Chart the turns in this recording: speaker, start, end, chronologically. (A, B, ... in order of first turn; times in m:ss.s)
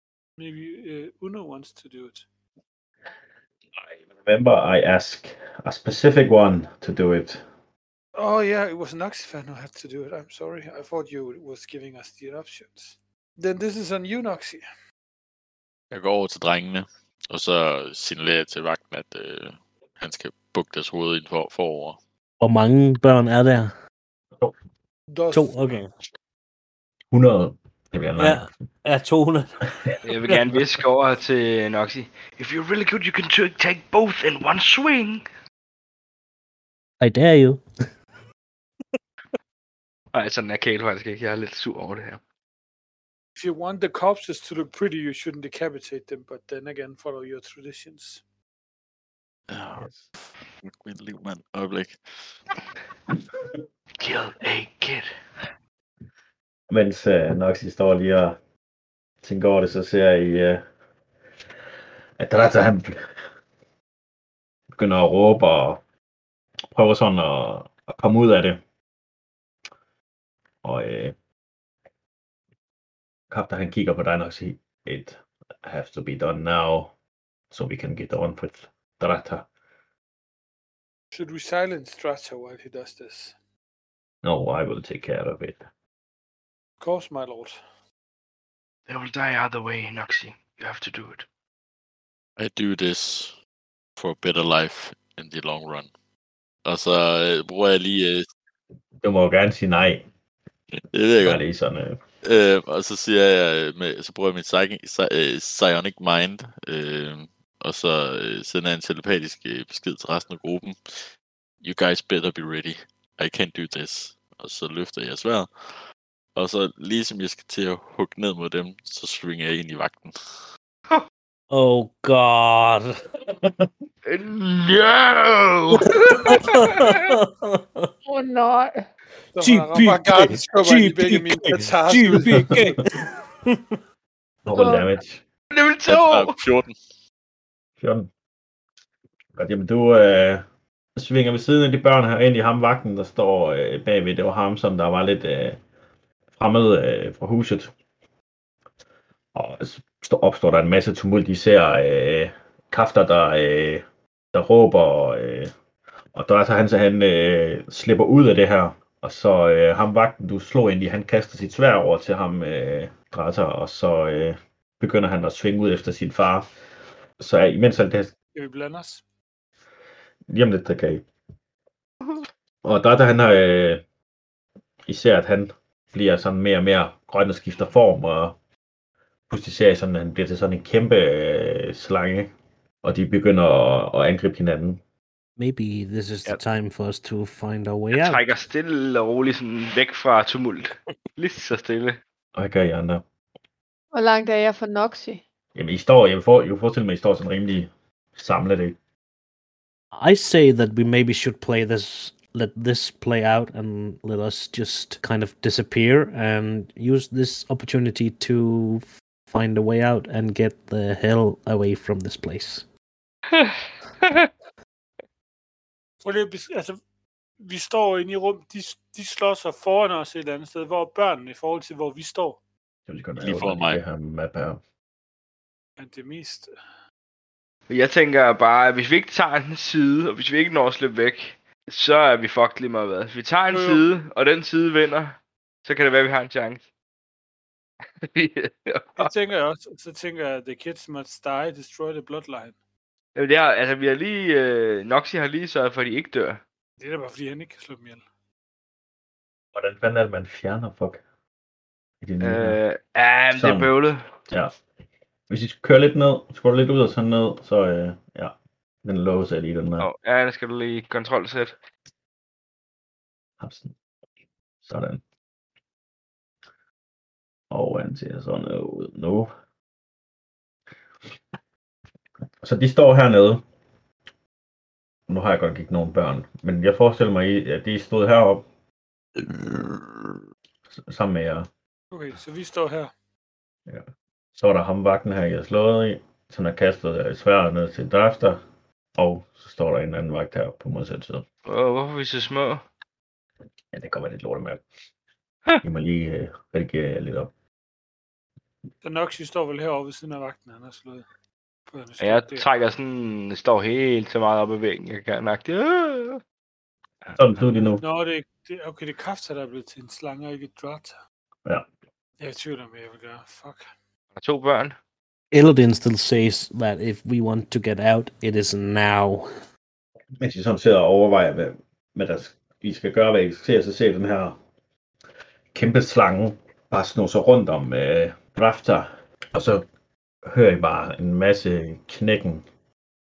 0:00.4-0:02.3 A
0:03.9-0:07.4 B
0:08.2-0:14.6 A
0:15.9-0:22.0 C
0:22.4-0:23.7 D
0:25.1-0:25.6 A
0:25.3-0:25.9 D
0:27.1-0:28.5 B
0:28.2-0:29.6 D
0:30.0-0:35.3 E
0:37.0-0:37.6 D
0:40.1-0:42.2 E
0:43.4-0:48.2 A
0:49.5-0:52.3 C
0:49.8-0:50.0 B
0:54.0-0:55.1 E
0:56.7-0:58.4 B
0:59.2-1:00.6 B
1:02.2-1:03.0 B
1:04.7-1:05.8 B
1:06.7-1:08.6 B
1:10.6-1:11.2 B
1:13.3-1:16.9 B
1:17.5-1:19.5 B
1:21.1-1:23.4 A
1:24.2-1:25.6 B
1:26.8-1:27.6 A
1:28.9-1:31.3 E
1:32.4-1:33.4 C
1:34.0-1:35.9 C
1:36.6-1:38.3 C
1:39.0-1:40.1 B
1:40.7-1:41.4 C
1:41.2-1:42.0 B
1:42.2-1:51.1 C
1:51.6-1:55.5 C
1:56.4-2:00.2 C
2:01.5-2:03.0 D
2:04.1-2:07.0 E
2:05.9-2:07.9 D
2:08.0-2:08.8 F
2:09.3-2:12.6 A
2:09.4-2:13.7 D
2:14.4-2:15.2 B
2:14.5-2:14.9 F
2:15.5-2:16.4 E
2:15.9-2:16.8 C
2:17.8-2:18.1 B
2:19.4-2:20.4 B
2:21.0-2:25.6 B
2:26.4-2:27.7 B
2:29.4-2:35.5 B
2:36.2-2:46.5 B
2:47.2-2:48.1 B
2:48.4-2:49.0 A
2:50.3-2:51.0 B
2:52.6-2:53.8 B
2:54.9-2:58.4 B
2:59.3-3:02.3 B
3:02.8-3:04.8 B
3:05.4-3:08.3 D
3:07.9-3:12.0 E
3:12.4-3:13.0 B
3:13.9-3:15.2 F
3:15.6-3:18.8 B
3:19.9-3:32.6 D
3:33.3-3:34.3 E
3:36.0-3:36.8 A
3:37.4-3:42.4 A
3:42.9-3:44.6 B
3:43.2-3:43.8 C
3:45.8-3:46.5 A
3:47.7-3:56.7 E
3:53.5-3:53.9 A
3:58.0-3:59.1 E
3:59.0-4:02.6 A
4:03.2-4:06.4 E
4:06.8-4:08.0 A
4:09.6-4:11.0 B
4:12.0-4:12.6 B
4:12.2-4:14.1 E
4:13.3-4:13.7 B
4:15.3-4:19.9 B
4:19.8-4:21.6 E
4:23.4-4:23.7 B
4:24.6-4:25.0 B
4:27.5-4:29.3 B
4:32.4-4:33.4 B
4:35.1-4:38.4 B
4:39.2-4:40.0 B
4:40.7-4:41.5 B
4:41.9-4:42.9 A
4:44.4-4:48.4 B
4:49.0-4:51.2 B
4:51.5-4:52.6 E
4:53.7-4:54.6 B
4:55.6-4:57.3 B
4:58.8-5:01.1 A
5:01.7-5:02.5 A
5:02.0-5:06.2 E
5:07.2-5:07.8 B
5:07.8-5:11.0 A
5:12.2-5:13.6 A
5:14.2-5:14.8 E
5:15.3-5:19.3 D
5:20.2-5:24.4 B
5:25.5-5:29.6 B
5:30.2-5:32.4 B